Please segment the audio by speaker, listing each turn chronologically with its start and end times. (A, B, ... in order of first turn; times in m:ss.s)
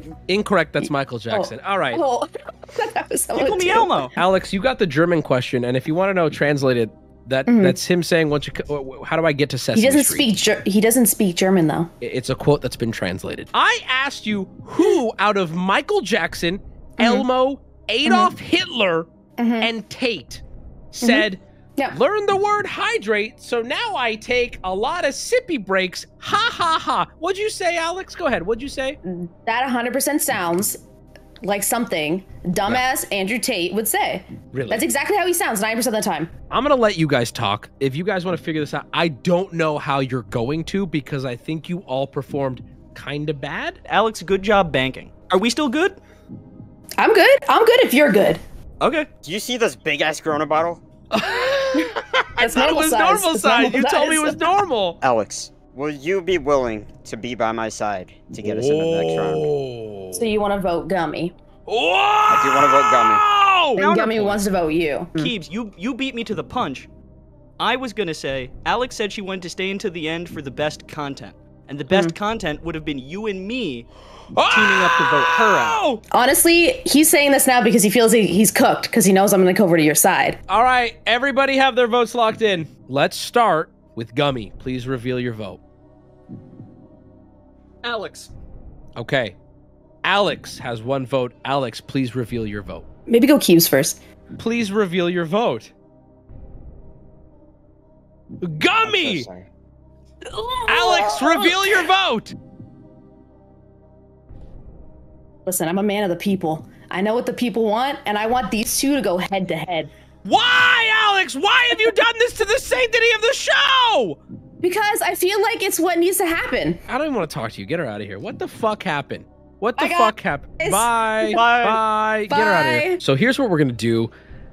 0:00.3-0:02.0 A
0:00.8-0:04.1 B
0:03.3-0:04.1 C
0:04.2-0:10.3 A
0:07.5-0:07.8 B
0:09.7-0:11.9 B
0:12.0-0:19.1 A
0:17.0-0:17.3 B
0:18.0-0:18.3 B
0:19.4-0:19.7 B
0:19.6-0:29.0 A
0:29.0-0:30.8 B
0:31.4-0:36.3 B
0:34.5-0:34.8 A
0:36.5-0:43.8 A
0:43.9-0:46.0 C
0:47.0-0:48.4 B
0:48.8-0:49.1 C
0:49.2-0:50.8 D
0:51.1-0:55.0 A
0:51.7-0:54.4 B
0:55.0-0:59.5 D
0:58.4-1:00.2 A
1:00.1-1:01.3 B
1:01.7-1:03.8 A
1:02.3-1:03.2 D
1:03.8-1:04.4 C
1:03.8-1:05.3 B
1:05.1-1:06.9 C
1:07.6-1:13.9 C
1:11.9-1:12.1 B
1:14.3-1:16.0 A
1:14.5-1:15.8 C
1:16.1-1:20.4 B
1:20.5-1:25.6 A
1:27.8-1:28.3 C
1:29.0-1:29.4 A
1:30.0-1:32.8 A
1:33.1-1:34.0 B
1:34.4-1:35.7 A
1:38.4-1:39.3 A
1:38.8-1:39.5 D
1:40.4-1:41.7 B
1:40.5-1:42.3 A
1:45.4-1:49.9 B
1:50.2-1:54.2 A
1:54.6-1:56.8 B
1:56.9-2:04.1 A
1:59.8-2:01.4 B
2:01.3-2:01.8 C
2:02.3-2:03.0 B